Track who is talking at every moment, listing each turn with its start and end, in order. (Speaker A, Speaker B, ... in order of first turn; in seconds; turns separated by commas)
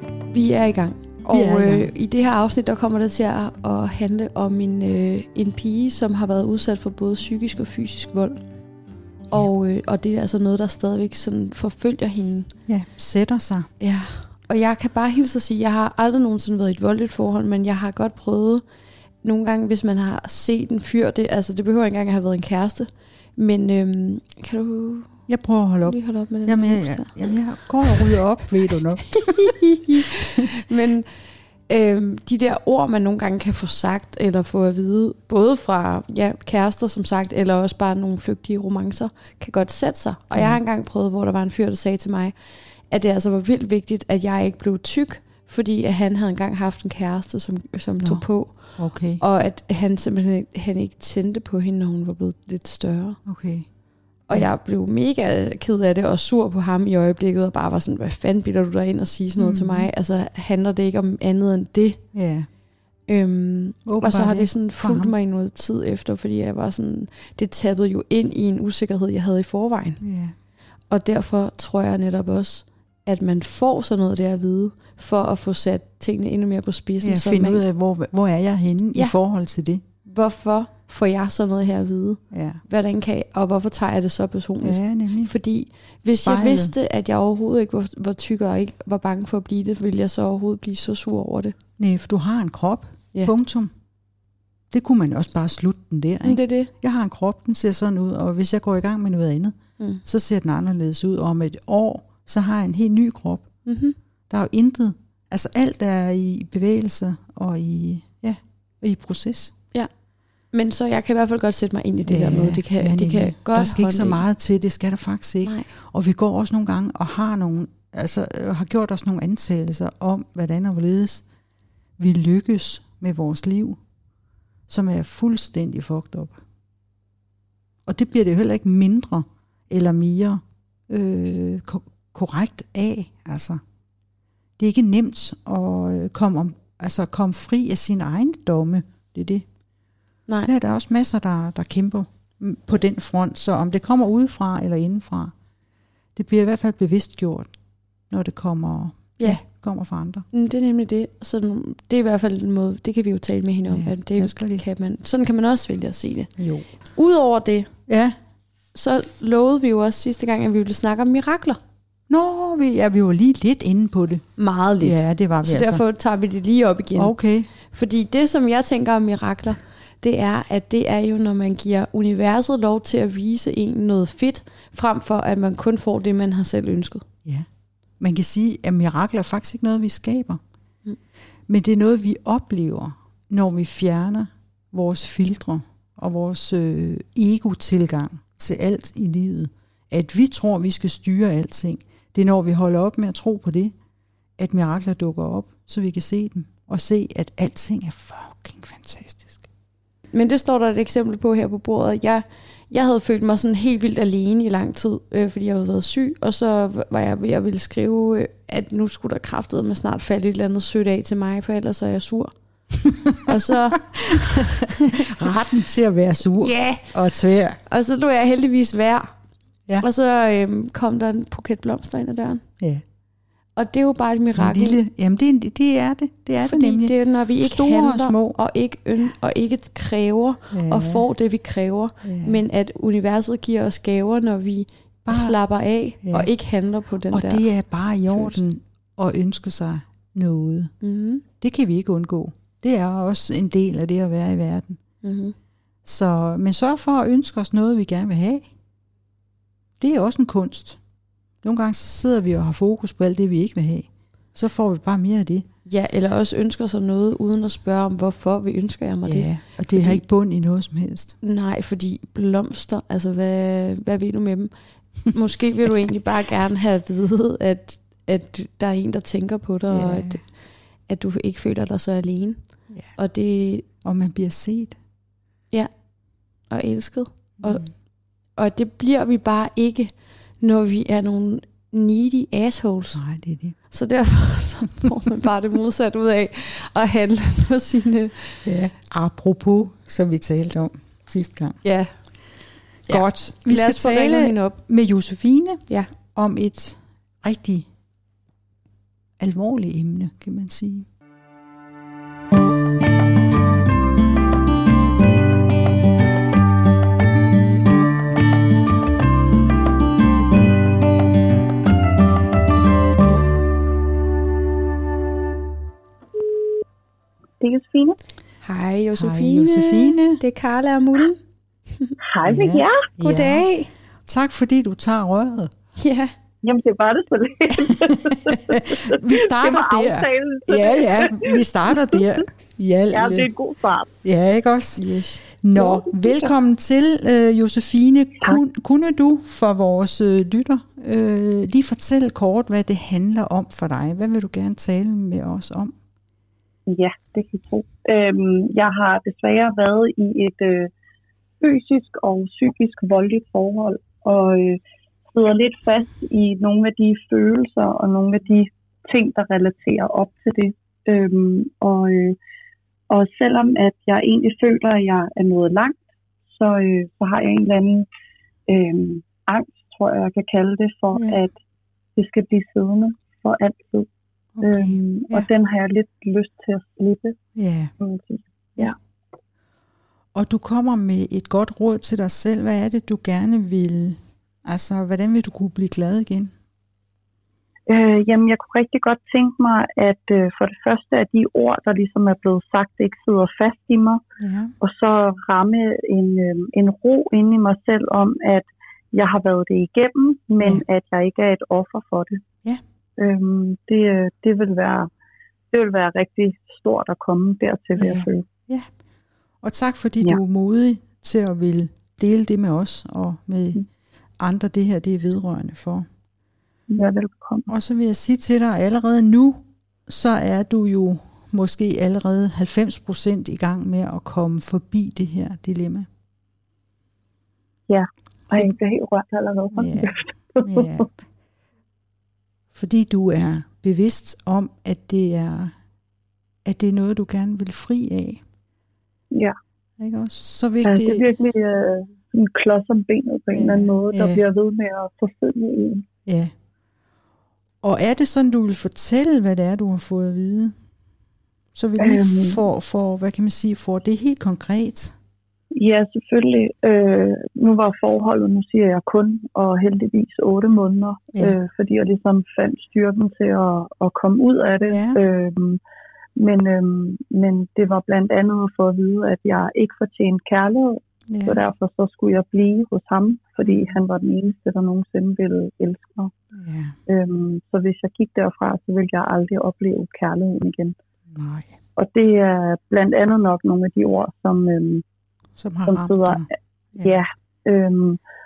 Speaker A: 0.3-8.4, Speaker B: 1.3-1.9, Speaker A: 9.3-12.5, Speaker B: 12.7-13.7, Speaker A: 13.8-18.6, Speaker A: 19.2-25.2, Speaker B: 25.3-29.5, Speaker A: 25.8-27.3, Speaker A: 27.8-28.1, Speaker A: 29.1-31.1, Speaker A: 31.7-42.4, Speaker B: 40.3-40.6, Speaker A: 42.9-53.2, Speaker B: 48.0-48.2, Speaker B: 48.8-49.2, Speaker B: 53.2-53.7, Speaker A: 54.3-62.0, Speaker B: 59.4-59.9, Speaker B: 62.1-62.5, Speaker A: 63.1-70.0, Speaker B: 63.9-65.1, Speaker B: 70.0-70.3, Speaker A: 70.9-77.6, Speaker B: 77.0-79.8, Speaker A: 80.0-91.5, Speaker B: 82.3-82.6, Speaker B: 84.6-85.3, Speaker B: 86.2-86.7, Speaker B: 91.8-93.7, Speaker B: 94.7-103.5, Speaker A: 96.2-96.7, Speaker A: 103.7-104.0, Speaker B: 104.3-109.5, Speaker A: 110.5-114.2, Speaker B: 112.0-121.2, Speaker A: 115.4-115.7, Speaker B: 122.0-123.8, Speaker B: 124.7-126.4, Speaker B: 127.8-133.6, Speaker B: 134.6-139.4, Speaker B: 140.4-145.3, Speaker B: 146.2-147.5, Speaker B: 148.1-150.2, Speaker A: 150.3-156.3, Speaker B: 153.7-154.6, Speaker B: 156.4-156.6, Speaker A: 156.9-157.7, Speaker B: 157.9-158.2, Speaker A: 158.7-161.6, Speaker B: 162.1-164.2, Speaker A: 164.4-167.1, Speaker B: 164.8-165.8, Speaker B: 166.9-167.5, Speaker A: 167.6-177.0, Speaker B: 178.0-180.4, Speaker B: 181.5-193.7, Speaker B: 194.4-199.4, Speaker A: 200.1-212.3, Speaker B: 212.9-217.6, Speaker A: 213.2-215.1, Speaker A: 216.3-216.9, Speaker A: 217.7-219.1, Speaker A: 219.8-222.4, Speaker A: 223.6-224.8, Speaker B: 224.3-228.4, Speaker A: 226.4-237.4, Speaker B: 230.5-231.0, Speaker B: 232.0-232.4, Speaker B: 235.1-235.3, Speaker B: 236.0-236.3, Speaker B: 237.1-240.7, Speaker A: 238.1-238.4, Speaker A: 240.8-241.2, Speaker B: 241.4-244.8, Speaker A: 245.0-245.3, Speaker B: 245.8-248.5, Speaker B: 249.8-250.8, Speaker B: 251.4-255.4, Speaker A: 255.6-260.0, Speaker B: 259.1-261.1, Speaker A: 261.2-270.2, Speaker B: 269.7-270.2, Speaker A: 270.9-272.4, Speaker A: 272.9-273.6, Speaker B: 273.8-274.8, Speaker A: 276.5-277.7, Speaker B: 277.4-277.7, Speaker A: 278.4-283.0, Speaker B: 282.9-283.6, Speaker A: 283.7-288.4, Speaker B: 288.4-291.6, Speaker A: 291.6-291.9, Speaker A: 292.9-294.6, Speaker B: 292.9-297.7, Speaker B: 299.2-300.9, Speaker C: 317.4-318.0, Speaker A: 318.4-321.2, Speaker B: 318.9-320.2, Speaker C: 322.1-322.9, Speaker B: 322.2-323.4, Speaker A: 323.0-323.7, Speaker B: 324.1-325.5, Speaker A: 325.8-326.1, Speaker C: 326.4-332.1, Speaker B: 327.7-333.3, Speaker C: 332.9-333.9, Speaker B: 334.0-345.7, Speaker A: 334.8-335.2, Speaker C: 335.6-336.3, Speaker C: 346.7-350.7, Speaker C: 351.4-354.6, Speaker C: 355.1-362.2, Speaker C: 362.9-365.8, Speaker C: 366.3-367.9, Speaker C: 368.5-371.3, Speaker B: 370.9-371.2, Speaker C: 371.9-373.9, Speaker B: 374.4-375.3, Speaker C: 374.4-377.2, Speaker B: 377.4-377.7, Speaker C: 377.8-378.8, Speaker B: 380.1-386.3, Speaker C: 387.7-394.0, Speaker B: 394.2-394.5, Speaker C: 394.6-402.2, Speaker B: 400.4-400.6, Speaker C: 403.0-404.9, Speaker C: 405.5-408.2, Speaker B: 407.8-408.7, Speaker B: 409.4-413.6, Speaker B: 414.2-415.9, Speaker C: 416.7-417.5, Speaker B: 417.5-425.9, Speaker C: 427.7-430.9, Speaker B: 429.5-430.9, Speaker B: 432.5-435.5, Speaker B: 436.4-438.2, Speaker B: 439.8-441.0, Speaker C: 440.6-445.9, Speaker B: 443.3-444.2, Speaker B: 446.1-446.3, Speaker B: 447.6-450.5, Speaker B: 451.5-454.9, Speaker C: 451.8-452.4, Speaker C: 455.5-465.6, Speaker B: 464.6-465.0, Speaker C: 466.1-476.1, Speaker B: 471.1-471.4, Speaker B: 473.4-473.7, Speaker B: 476.3-476.8, Speaker C: 476.9-480.7, Speaker B: 481.1-481.5, Speaker C: 481.8-484.8, Speaker B: 485.4-487.0, Speaker C: 485.7-486.2, Speaker C: 486.8-488.0